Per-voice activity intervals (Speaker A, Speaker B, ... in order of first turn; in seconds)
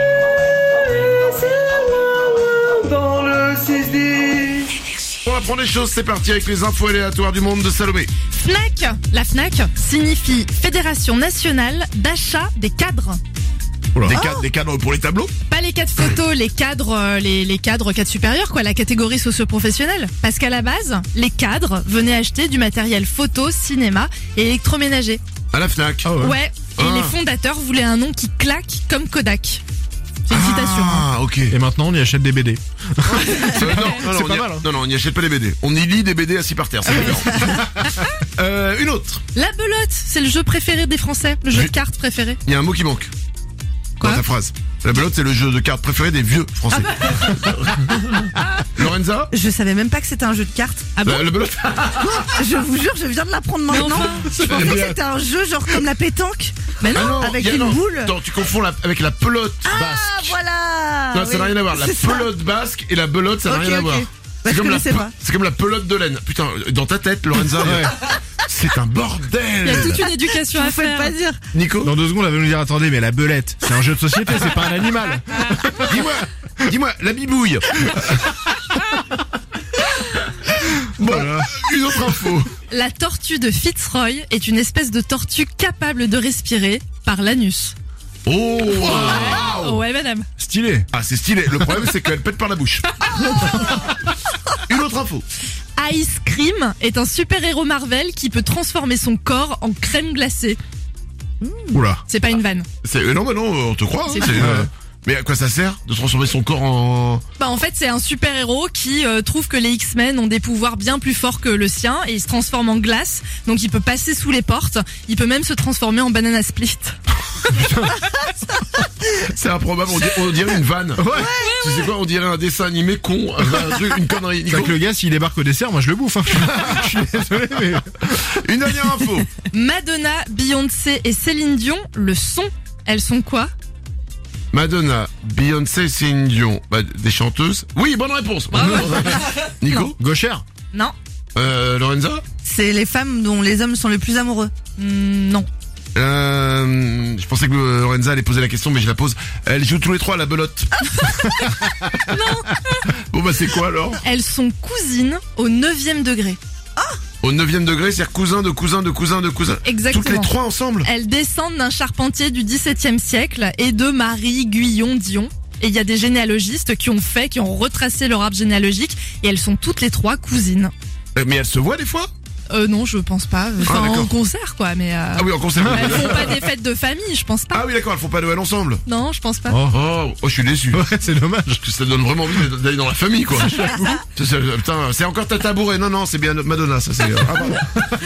Speaker A: 1.3-4.6
Speaker B: 5.2-8.1, 14.0-15.3, 25.5-26.1, 26.8-27.1, 30.3-31.6, 33.1-37.5, 38.4-39.2, 42.5-43.1, 44.0-48.2, 48.8-49.3, 51.0-52.5, 54.1-55.0, 56.9-60.4, 61.1-70.1, 71.5-71.9, 75.9-78.4, 81.0-82.5, 88.3-89.8, 90.9-92.9, 94.6-95.3, 102.8-107.2, 119.0-124.8, 126.4-127.0, 128.1-129.3, 134.5-140.0, 141.3-142.2, 145.9-150.7, 152.9-154.0, 157.2-160.9, 171.2-172.1, 173.6-174.1, 175.1-176.4, 177.5-178.8, 179.7-180.8, 181.6-187.7
Speaker C: 8.3-13.2, 14.1-14.4, 15.5-25.2, 26.2-29.6, 30.3-31.1, 39.3-42.4, 51.0-51.3, 53.7-54.3, 69.6-71.1, 82.7-87.8, 88.7-90.3, 95.8-100.6, 102.1-102.7, 104.1-104.5, 107.4-117.0, 129.5-133.5, 138.5-139.9, 144.8-145.5, 151.1-152.9, 154.0-156.4, 159.6-170.7, 172.5-177.7, 178.9-179.6
Speaker D: 26.1-26.4, 31.5-34.6, 67.6-68.0, 71.8-76.0, 90.4-90.9, 93.5-93.8, 101.7-102.0, 104.4-104.7, 117.5-118.0, 121.0-121.4, 124.5-128.1, 140.0-140.4, 179.5-179.8, 180.7-181.6, 183.4-184.0
Speaker E: 37.3-37.6, 47.0-47.5, 49.3-50.9, 52.0-58.1, 59.7-62.3, 63.5-65.1, 70.5-71.4, 101.4-101.8, 121.2-121.6, 142.4-144.5